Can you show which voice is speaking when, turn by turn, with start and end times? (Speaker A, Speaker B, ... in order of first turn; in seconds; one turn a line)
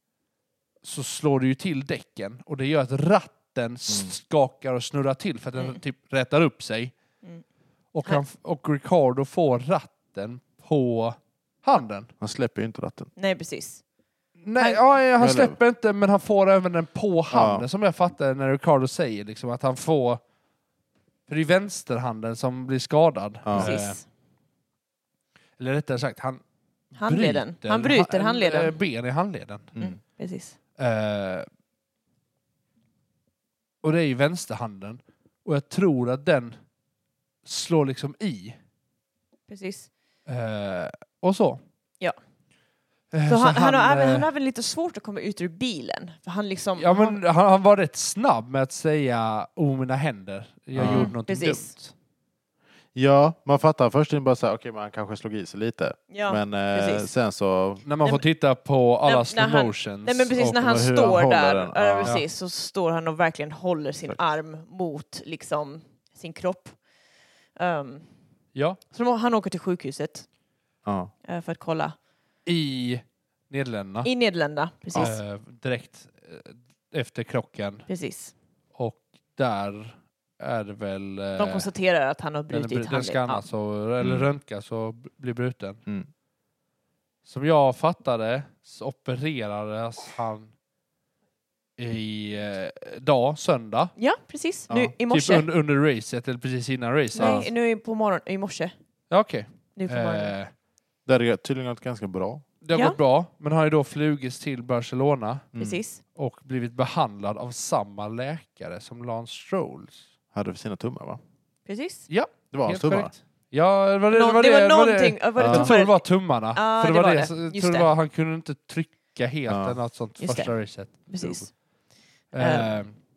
Speaker A: 0.8-6.9
Speaker B: 3.9-4.2
Speaker A: 7.9-12.1
Speaker B: 12.2-13.1
Speaker C: 13.2-13.8
Speaker A: 14.4-20.2
Speaker B: 15.2-15.6
Speaker B: 17.3-17.7
Speaker A: 21.3-24.0
Speaker B: 23.4-23.8
Speaker C: 23.5-24.0
Speaker A: 25.6-29.7
Speaker C: 27.0-28.8
Speaker C: 29.8-30.6
Speaker A: 30.8-31.5
Speaker A: 33.8-36.5
Speaker A: 37.5-38.6
Speaker C: 39.5-39.9
Speaker A: 40.3-41.6
Speaker A: 43.1-44.3
Speaker C: 43.3-47.2
Speaker A: 46.8-51.9
Speaker B: 50.8-51.1
Speaker C: 50.8-51.7
Speaker B: 53.0-57.8
Speaker C: 56.1-57.1
Speaker A: 57.9-60.9
Speaker C: 59.0-66.8
Speaker B: 60.6-62.2
Speaker C: 67.6-68.1
Speaker A: 68.5-68.8
Speaker C: 68.9-70.3
Speaker B: 70.8-71.1
Speaker C: 71.2-72.0
Speaker A: 72.5-74.1
Speaker C: 74.0-75.2
Speaker A: 75.0-77.9
Speaker C: 77.9-78.3
Speaker A: 78.8-81.7
Speaker C: 81.4-83.4
Speaker A: 82.5-85.8
Speaker B: 84.0-84.3
Speaker A: 87.2-90.5
Speaker A: 91.8-93.9
Speaker C: 94.0-95.5
Speaker A: 95.1-97.5
Speaker C: 97.2-98.7
Speaker A: 99.1-100.5
Speaker C: 99.8-100.3
Speaker B: 101.1-102.5
Speaker A: 102.6-105.5
Speaker C: 102.7-103.0
Speaker B: 105.5-105.8
Speaker C: 105.6-106.0
Speaker A: 106.1-110.0
Speaker B: 110.3-111.2
Speaker C: 111.7-112.1
Speaker A: 112.1-121.4
Speaker B: 112.5-113.1
Speaker C: 114.1-116.0
Speaker B: 115.4-115.7
Speaker C: 116.5-117.9
Speaker B: 119.5-119.8
Speaker C: 120.2-121.5
Speaker A: 122.3-122.9
Speaker C: 122.4-122.8